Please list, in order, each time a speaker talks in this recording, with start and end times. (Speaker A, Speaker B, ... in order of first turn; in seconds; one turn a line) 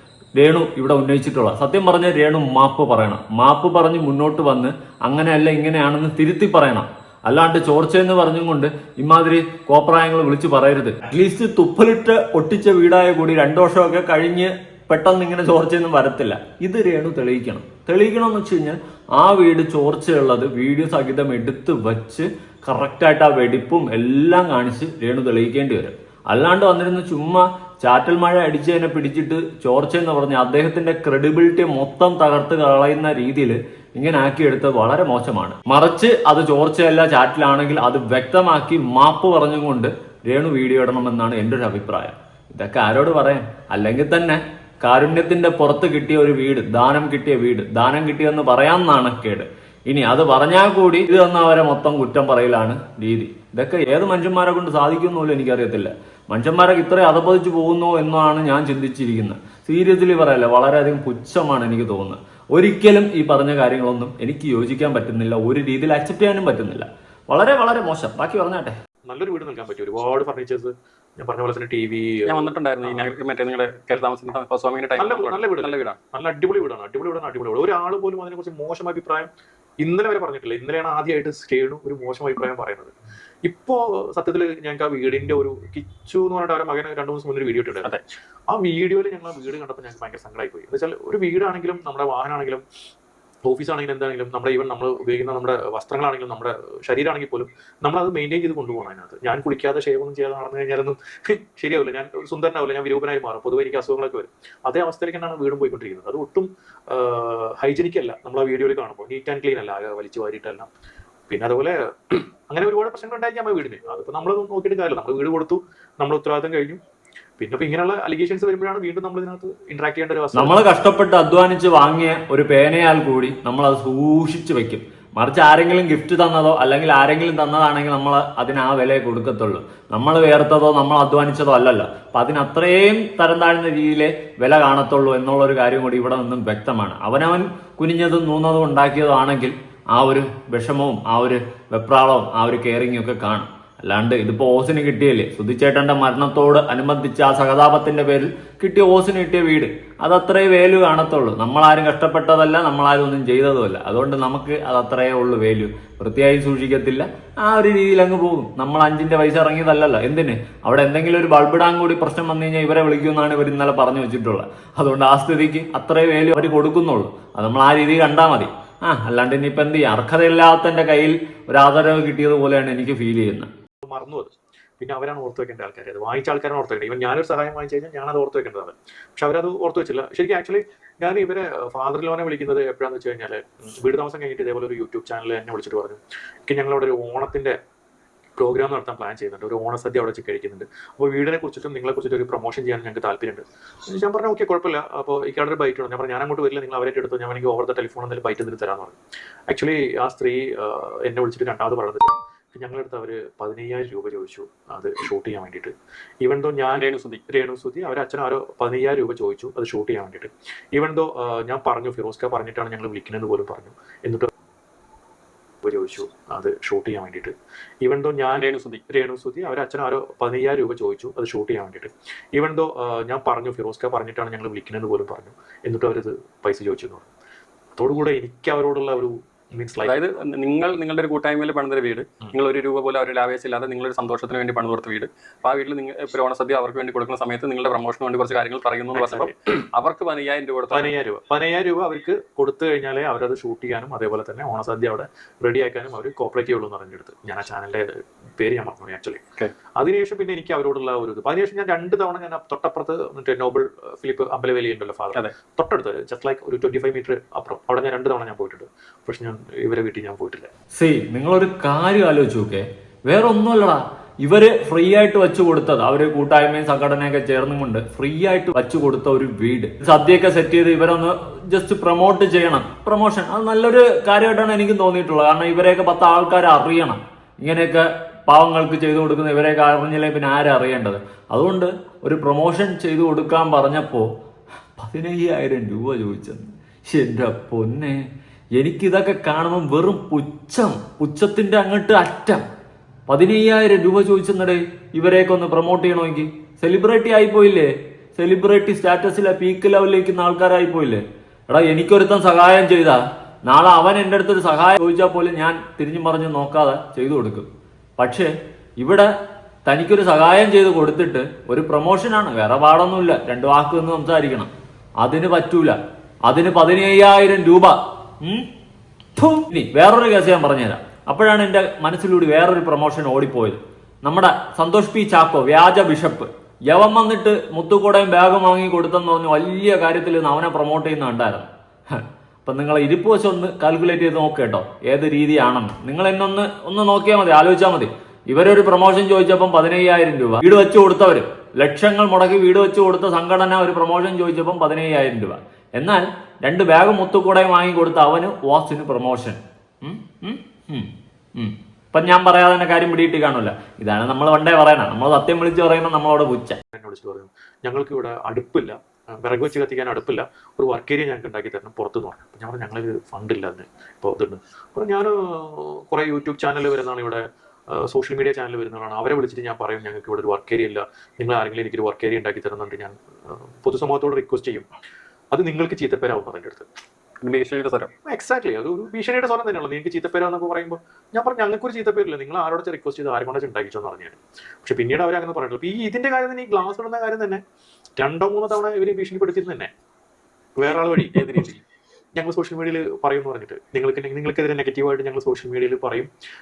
Speaker A: 0.3-68.8
Speaker B: 69.1-73.1
Speaker C: 72.3-76.0
Speaker B: 75.0-79.3
Speaker B: 79.8-92.6
Speaker B: 93.4-110.7
Speaker B: 111.3-116.8
Speaker B: 117.4-120.7
Speaker A: 120.3-173.5
Speaker B: 173.8-187.6
Speaker B: 188.4-198.9
Speaker B: 199.5-214.3
Speaker C: 206.7-207.2
Speaker B: 215.6-227.1
Speaker C: 218.3-218.8
Speaker B: 227.8-230.1
Speaker C: 229.8-240.9
Speaker B: 238.9-239.3
Speaker B: 240.7-249.2
Speaker B: 249.8-260.5
Speaker A: 260.8-284.1
Speaker A: 284.8-288.0
Speaker A: 288.6-292.4
Speaker A: 293.1-309.1
Speaker A: 309.7-314.5
Speaker A: 315.0-318.4
Speaker A: 319.2-356.6
Speaker B: 356.7-374.7
Speaker B: 375.3-376.7
Speaker C: 377.2-377.9
Speaker B: 378.1-387.4
Speaker B: 388.0-389.7
Speaker B: 390.6-391.5
Speaker C: 390.7-391.6
Speaker B: 392.1-396.1